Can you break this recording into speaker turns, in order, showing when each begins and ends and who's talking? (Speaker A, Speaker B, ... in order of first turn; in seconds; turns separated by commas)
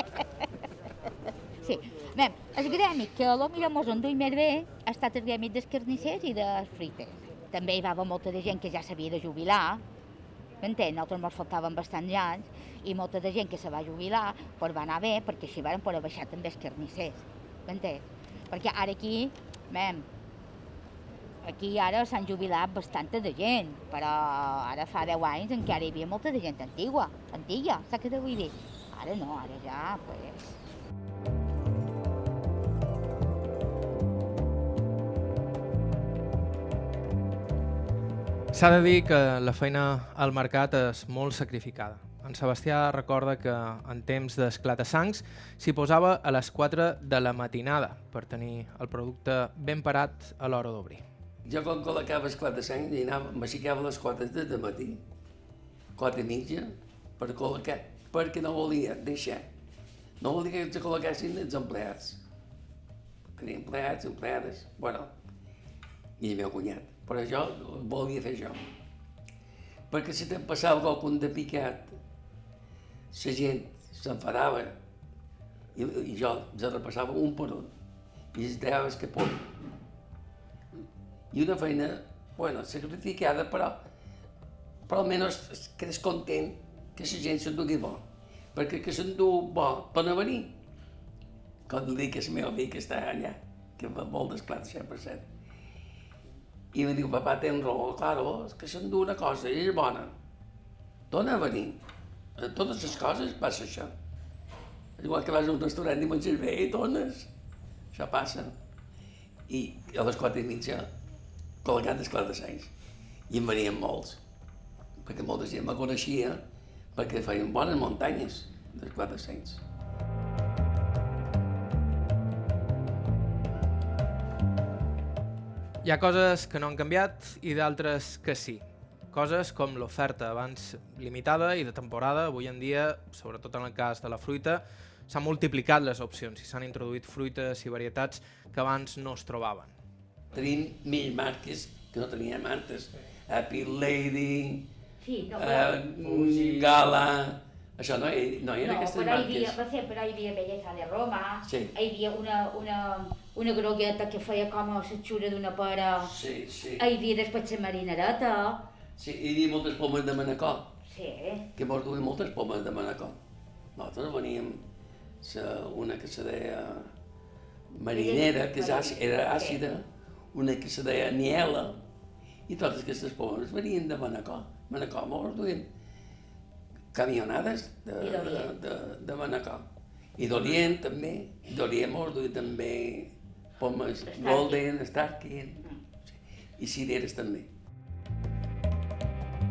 Speaker A: 1.6-9.8, Speaker A: 10.6-20.1, Speaker A: 21.4-30.6, Speaker B: 38.5-51.0, Speaker C: 51.4-55.0, Speaker C: 56.0-59.5, Speaker C: 60.2-62.2, Speaker C: 63.3-65.1, Speaker C: 66.2-68.7, Speaker C: 69.9-72.0, Speaker C: 73.1-74.8, Speaker C: 75.7-77.7, Speaker C: 78.3-79.5, Speaker C: 81.3-83.8, Speaker C: 84.9-90.6, Speaker C: 91.7-95.3, Speaker C: 96.7-100.1, Speaker C: 101.1-101.8, Speaker C: 102.4-103.9, Speaker C: 105.0-107.3, Speaker C: 107.9-108.5, Speaker C: 109.5-110.9, Speaker C: 111.6-112.7, Speaker C: 113.3-114.2, Speaker C: 115.0-116.4, Speaker C: 116.9-119.6, Speaker B: 125.8-139.7, Speaker C: 140.3-144.7, Speaker A: 145.0-145.8, Speaker C: 145.3-149.6, Speaker B: 146.0-146.8, Speaker A: 148.6-156.1, Speaker C: 151.4-151.7, Speaker C: 156.0-156.9, Speaker A: 156.8-158.7, Speaker C: 159.0-160.7, Speaker A: 160.9-161.5, Speaker C: 161.5-163.2, Speaker C: 163.8-164.6, Speaker C: 165.2-166.9, Speaker C: 167.7-171.8, Speaker A: 167.9-169.6, Speaker C: 172.5-175.7, Speaker C: 176.9-187.5, Speaker A: 178.0-178.6, Speaker A: 184.1-184.6